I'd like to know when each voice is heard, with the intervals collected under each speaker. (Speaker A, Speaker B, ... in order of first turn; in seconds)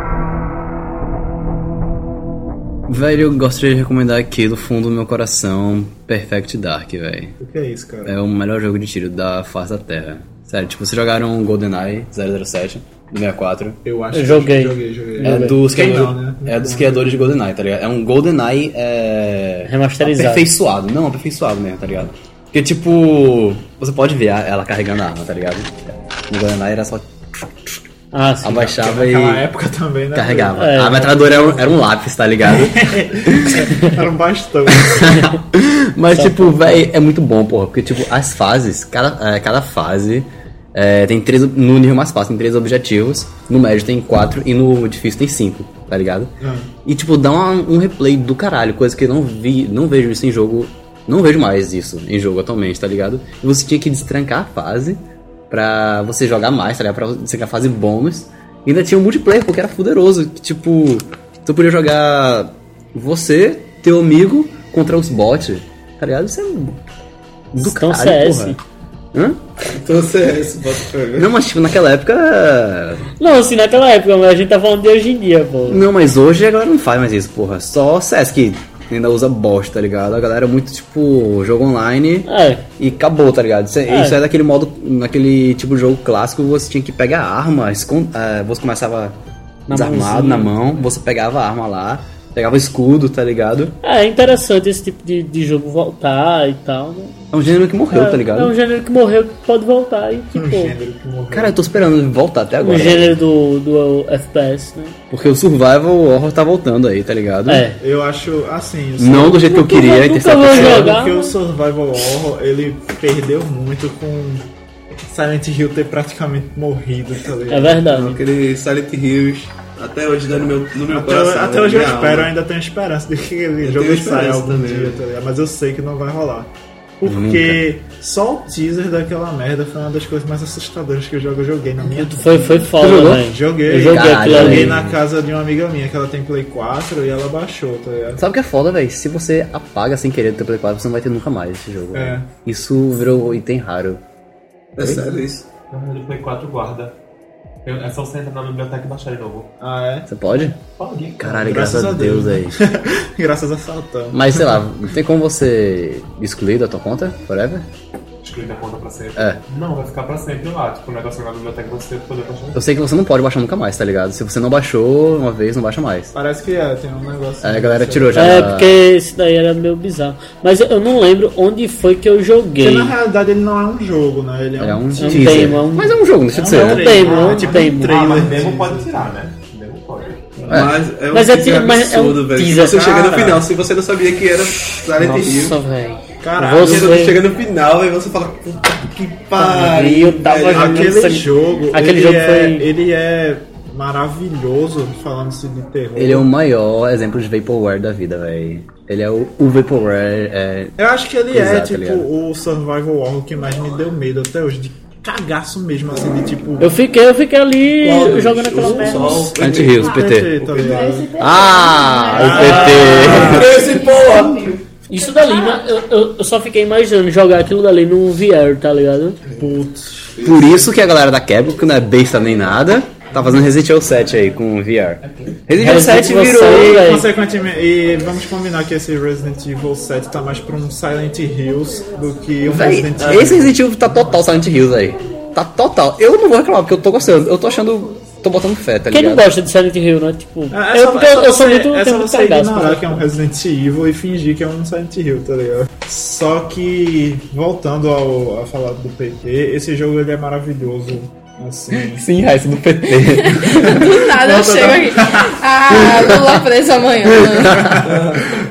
Speaker A: 2.9-7.3, 8.0-13.8, 15.2-27.8, 28.4-29.4, 30.1-33.7, 34.7-46.3, 46.9-66.8, 67.5-68.6, 69.1-69.5, 71.2-73.1, 75.7-89.2, 89.7-93.7, 97.3-98.5, 101.3-103.1, 105.1-107.6, 109.0-110.9, 127.0-127.6, 132.8-135.0, 138.2-144.0, 150.1-150.6, 151.2-152.6, 154.1-157.7, 159.2-159.4, 162.5-166.1, 167.4-168.7, 174.6-177.0, 180.5-180.7, 196.0-200.7, 201.3-202.1, 209.4-210.3, 211.2-213.5, 220.2-226.8, 232.4-239.3, 251.7-253.9, 257.4-257.8
Speaker B: 7.4-8.1, 13.8-17.4, 28.7-31.7, 32.5-35.3, 46.4-46.7, 100.3-101.7, 107.8-109.5, 110.5-114.4, 115.1-117.8, 120.9-138.2, 141.9-142.3, 149.6-150.1, 151.2-154.6, 166.1-168.5, 172.6-175.6, 176.3-179.1, 186.2-187.0, 190.5-196.3, 200.8-206.8, 208.6-211.1, 212.1-213.8, 219.4-220.2, 223.2-223.5, 226.4-234.2, 240.5-252.0, 253.7-255.3
Speaker C: 14.1-15.7, 19.6-20.5, 28.1-28.7, 30.6-31.4, 36.1-36.8, 67.6-68.6, 73.2-75.9, 82.2-82.6, 83.9-84.2, 89.7-90.8, 93.8-97.2, 97.9-100.7, 102.6-105.0, 107.5-107.8, 109.3-111.3, 117.5-118.2, 131.8-134.8, 168.1-172.9, 175.0-178.1, 181.1-183.2, 185.0-187.2, 189.3-192.7, 206.6-209.3, 212.2-213.5, 214.9-219.2, 225.5-227.1, 238.9-243.0
Speaker D: 69.7-71.3, 117.9-122.3, 123.6-125.0, 144.8-145.4, 180.5-185.6, 186.6-191.1, 207.8-210.9, 213.3-214.5, 220.2-220.7, 257.8-258.2
Speaker E: 145.7-146.9, 147.6-149.5, 150.8-151.2, 158.2-162.6, 177.3-180.5
Speaker F: 210.6-214.6, 215.1-215.5, 253.0-257.7